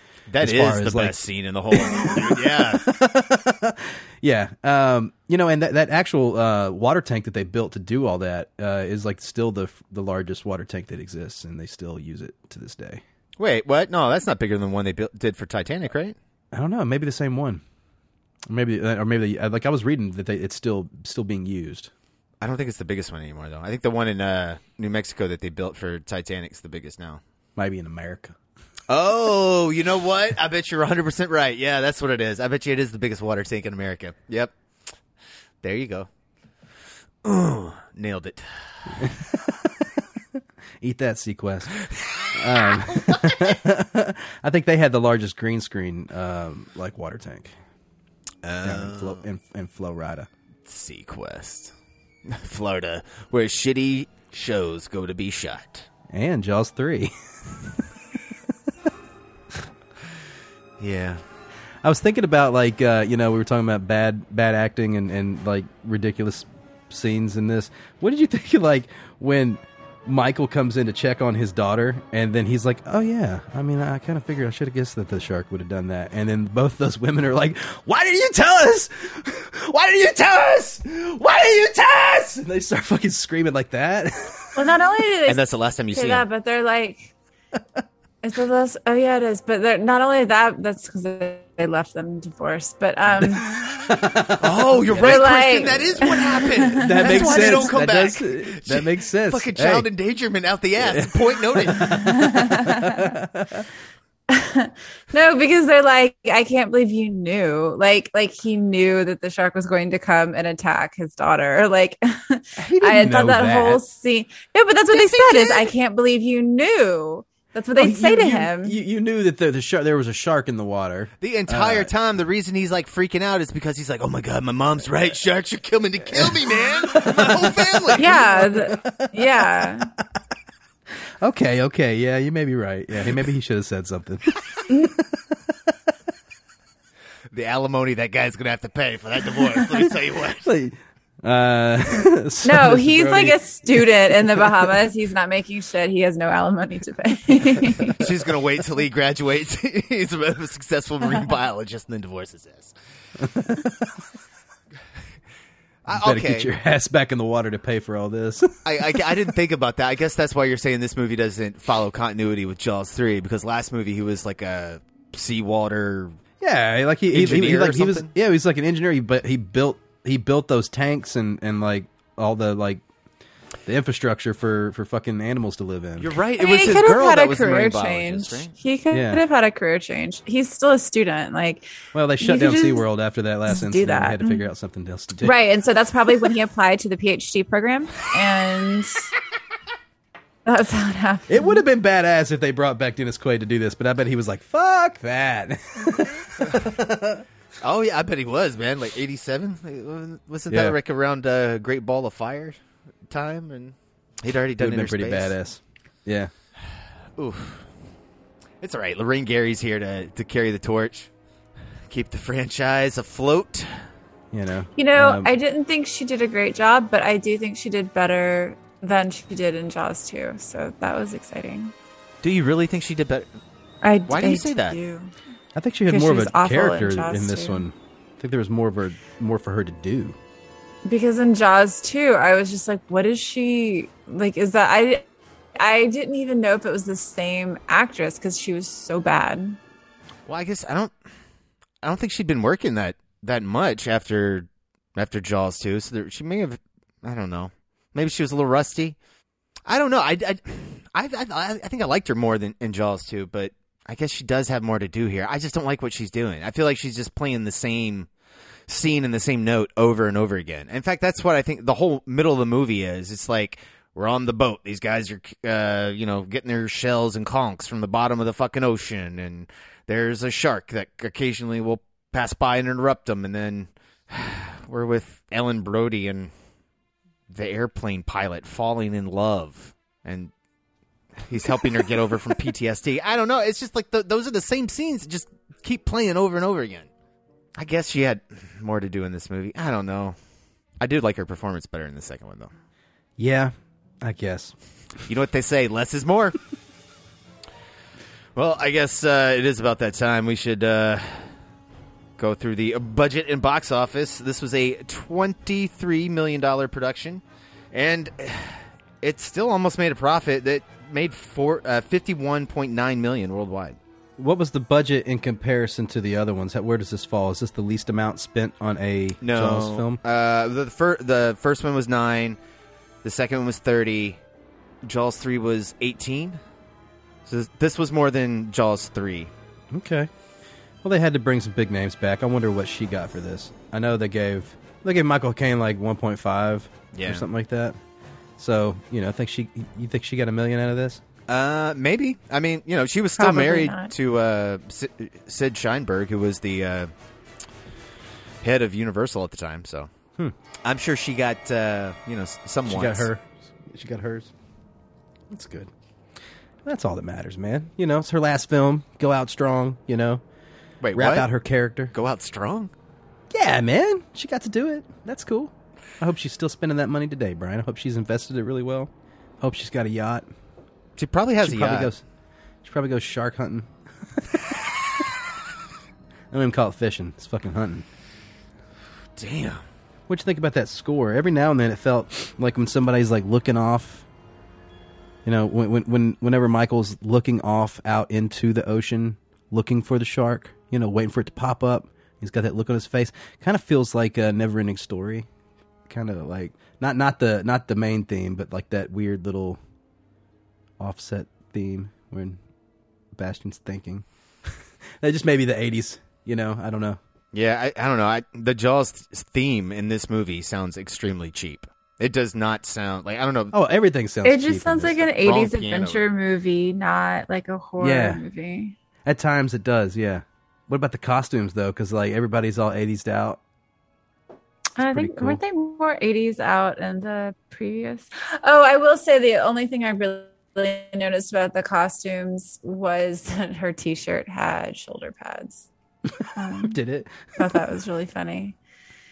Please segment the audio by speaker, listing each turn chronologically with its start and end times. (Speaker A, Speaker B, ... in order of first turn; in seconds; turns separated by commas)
Speaker A: 0.3-2.9, Speaker B: 0.4-13.0, Speaker A: 13.4-16.2, Speaker B: 16.5-17.6, Speaker B: 18.5-21.9, Speaker A: 22.4-27.2, Speaker B: 27.6-28.4, Speaker A: 28.9-34.5, Speaker A: 35.6-36.1, Speaker A: 37.2-39.1, Speaker B: 39.0-39.9, Speaker B: 40.8-41.8, Speaker A: 42.0-43.6, Speaker B: 42.3-47.5, Speaker A: 48.4-49.2, Speaker B: 48.6-50.3, Speaker A: 50.7-51.7, Speaker A: 52.3-55.9, Speaker B: 56.1-57.1, Speaker A: 60.8-61.2, Speaker B: 61.8-84.6, Speaker C: 84.6-87.1, Speaker A: 85.3-86.2, Speaker C: 88.2-93.5, Speaker B: 93.2-96.0, Speaker A: 94.4-101.9, Speaker C: 95.0-97.7, Speaker B: 96.7-99.9, Speaker B: 100.8-103.7, Speaker C: 101.9-103.1, Speaker C: 104.3-118.8, Speaker B: 112.6-113.8, Speaker A: 114.9-115.7, Speaker B: 117.8-121.9, Speaker A: 121.2-128.1, Speaker B: 126.1-129.5, Speaker C: 128.0-129.9, Speaker B: 131.2-134.3, Speaker C: 134.7-134.9, Speaker A: 137.3-140.5, Speaker B: 140.4-144.8, Speaker C: 142.4-148.0, Speaker A: 148.0-152.7, Speaker B: 153.2-154.0, Speaker A: 155.9-156.5, Speaker B: 155.9-159.0, Speaker A: 158.7-166.2, Speaker B: 166.4-172.8, Speaker A: 167.1-168.1, Speaker B: 173.7-176.1, Speaker A: 176.0-178.5, Speaker C: 176.4-181.7, Speaker B: 178.9-179.2, Speaker B: 181.9-185.4, Speaker C: 182.2-182.9, Speaker C: 183.5-184.4, Speaker C: 185.2-189.0, Speaker C: 190.4-191.6, Speaker B: 191.3-197.2, Speaker A: 197.6-202.6, Speaker B: 200.5-200.8, Speaker A: 203.1-205.3, Speaker B: 204.6-206.3, Speaker A: 207.2-207.7, Speaker A: 208.6-211.1, Speaker A: 211.9-213.8, Speaker B: 214.3-215.3, Speaker C: 214.8-221.7, Speaker A: 222.2-223.3, Speaker C: 223.8-225.1, Speaker A: 224.1-224.8, Speaker B: 225.5-230.2, Speaker C: 225.9-227.6, Speaker C: 230.9-235.1, Speaker C: 235.6-239.6, Speaker A: 240.3-240.9, Speaker A: 241.8-249.0, Speaker A: 249.7-258.1, Speaker A: 258.7-276.3, Speaker A: 277.3-280.3, Speaker A: 281.2-286.9, Speaker A: 287.6-290.2, Speaker A: 290.8-292.5, Speaker B: 293.2-294.6, Speaker A: 295.1-296.4, Speaker A: 298.4-301.3, Speaker A: 302.2-313.8, Speaker B: 314.2-320.0, Speaker A: 319.2-322.4, Speaker A: 323.0-324.2, Speaker A: 324.8-326.4, Speaker A: 327.3-329.3, Speaker B: 329.7-330.1, Speaker B: 330.8-337.8, Speaker A: 336.9-337.2, Speaker B: 338.4-341.0, Speaker A: 341.3-346.9, Speaker C: 343.2-343.9, Speaker A: 348.4-349.9, Speaker A: 350.6-353.1, Speaker B: 352.7-354.3, Speaker B: 355.3-355.7, Speaker B: 356.6-360.2, Speaker A: 360.8-361.3, Speaker B: 360.9-361.9, Speaker A: 361.9-362.7, Speaker B: 363.3-370.3, Speaker A: 371.0-371.9, Speaker B: 371.4-372.0, Speaker B: 372.6-374.6, Speaker B: 376.3-377.9, Speaker A: 379.2-379.6, Speaker B: 380.1-384.1, Speaker B: 385.2-395.3, Speaker B: 395.9-399.6, Speaker B: 400.8-402.4, Speaker B: 403.1-407.0, Speaker A: 407.3-413.5, Speaker B: 413.5-415.1, Speaker C: 414.2-418.8, Speaker A: 415.2-416.0, Speaker B: 417.8-418.2, Speaker B: 419.1-423.4, Speaker C: 424.8-435.7, Speaker B: 424.9-425.4, Speaker B: 436.2-437.5, Speaker C: 436.4-436.8, Speaker C: 437.4-438.6